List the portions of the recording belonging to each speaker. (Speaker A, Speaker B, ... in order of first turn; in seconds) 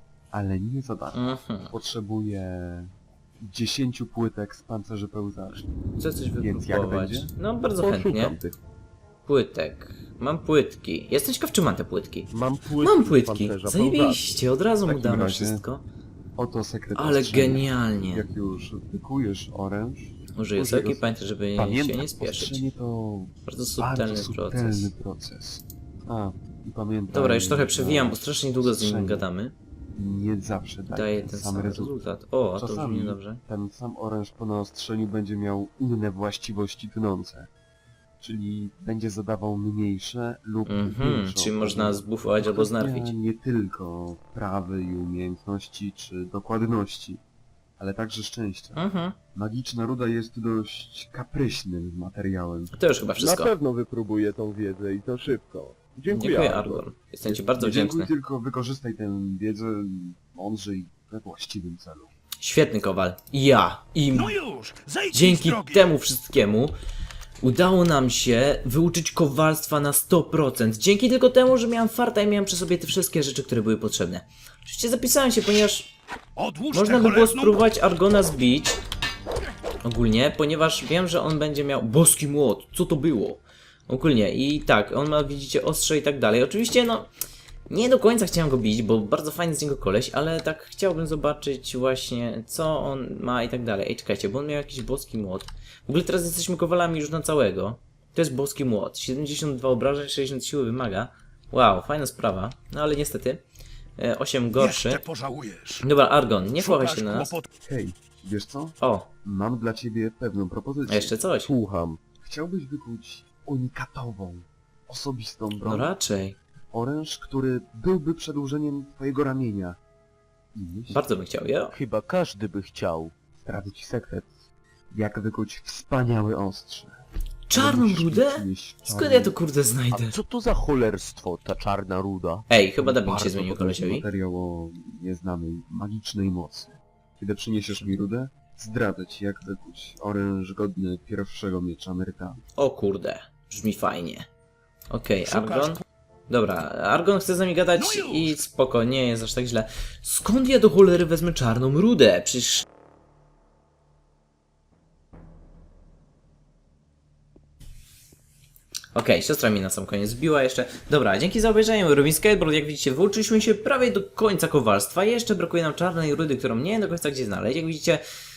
Speaker A: 0.3-5.7, 6.4-7.3, 14.9-15.6, 16.4-29.2, 29.9-32.0, 32.6-37.5, 38.2-47.2, 47.8-52.7, 57.6-62.1, 107.6-111.2, 112.2-115.9, 116.7-119.8, 120.5-121.0, 123.4-124.4, 124.9-126.9, 127.5-129.4, 132.8-142.4
Speaker B: 1.1-1.7, 6.0-8.4, 9.2-15.8, 16.9-18.2, 20.4-22.6, 23.4-24.9, 27.1-29.6, 30.9-33.4, 40.7-43.1, 48.8-49.1, 52.7-53.5, 56.1-58.1, 62.4-64.4, 65.1-66.7, 67.4-75.9, 76.7-78.8, 79.8-87.1, 87.7-103.4, 104.0-105.0, 105.8-107.3, 108.8-109.1, 110.9-111.5, 115.6-116.4, 120.9-121.7, 127.5-130.2, 132.5-134.1, 142.6-144.3, 144.9-152.7, 158.9-168.0
Speaker C: 7.8-8.4, 12.3-14.4, 53.2-57.5, 111.4-112.0
Speaker D: 64.1-65.9, 76.4-77.6, 104.6-105.8, 106.6-107.5, 145.3-145.8, 147.8-148.4
Speaker E: 121.7-123.1, 129.9-133.5